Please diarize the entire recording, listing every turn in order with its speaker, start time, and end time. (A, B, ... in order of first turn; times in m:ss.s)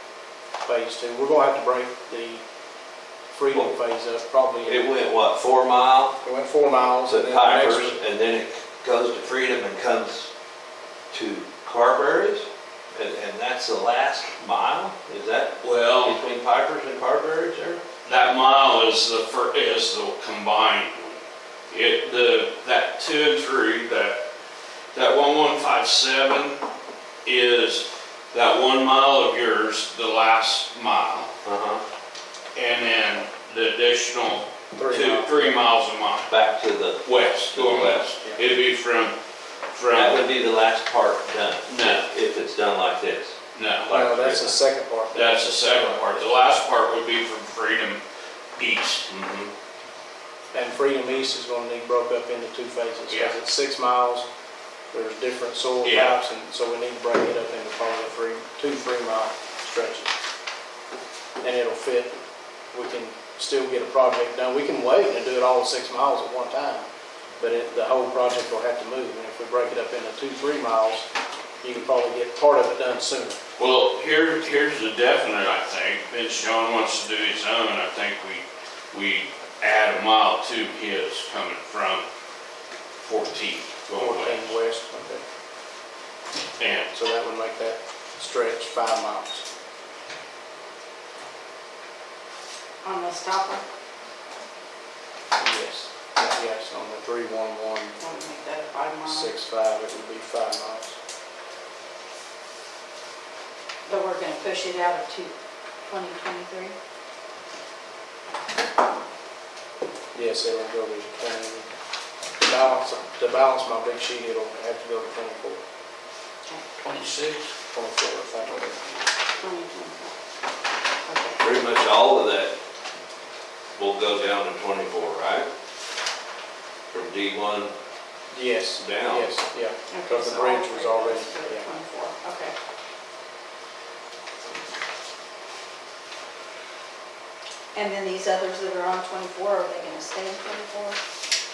0:00.6-0:02.4 A
0:03.3-0:04.8 A
0:04.6-0:06.2 B
0:06.2-0:08.0 A
0:07.1-0:10.3 B
0:11.1-0:17.8 B
0:15.6-0:16.2 C
0:18.0-0:24.2 C
0:24.9-0:26.6 C
0:27.2-0:31.3 C
0:31.4-0:31.8 B
0:32.5-0:36.3 C
0:34.7-0:35.5 A
0:36.3-0:38.0 B
0:37.0-0:39.2 C
0:39.7-0:40.2 C
0:39.9-0:44.6 B
0:41.7-0:42.1 C
0:43.5-0:43.9 C
0:43.9-0:46.3 A
0:45.1-0:48.0 C
0:48.6-0:49.5 C
0:50.5-0:54.3 A
0:53.1-0:53.3 C
0:54.9-1:00.1 A
0:55.8-0:56.2 C
1:01.4-1:02.1 A
1:02.7-1:06.9 A
1:07.4-1:11.1 A
1:11.6-1:13.4 A
1:13.6-1:22.0 C
1:23.0-1:24.5 C
1:24.0-1:25.2 A
1:26.6-1:26.9 C
1:26.9-1:29.4 A
1:32.8-1:33.6 D
1:35.4-1:38.0 A
1:38.0-1:39.3 D
1:39.0-1:41.0 A
1:43.9-1:45.3 D
1:45.9-1:46.7 D
1:50.1-1:51.7 A
1:52.4-1:55.6 A
1:57.7-1:58.8 A
1:59.4-2:00.1 D
2:01.0-2:01.4 D
2:01.4-2:02.6 B
2:03.8-2:05.5 B
2:06.9-2:07.7 B
2:08.3-2:11.7 A
2:08.8-2:09.3 B
2:09.9-2:12.5 D
2:17.7-2:21.0 D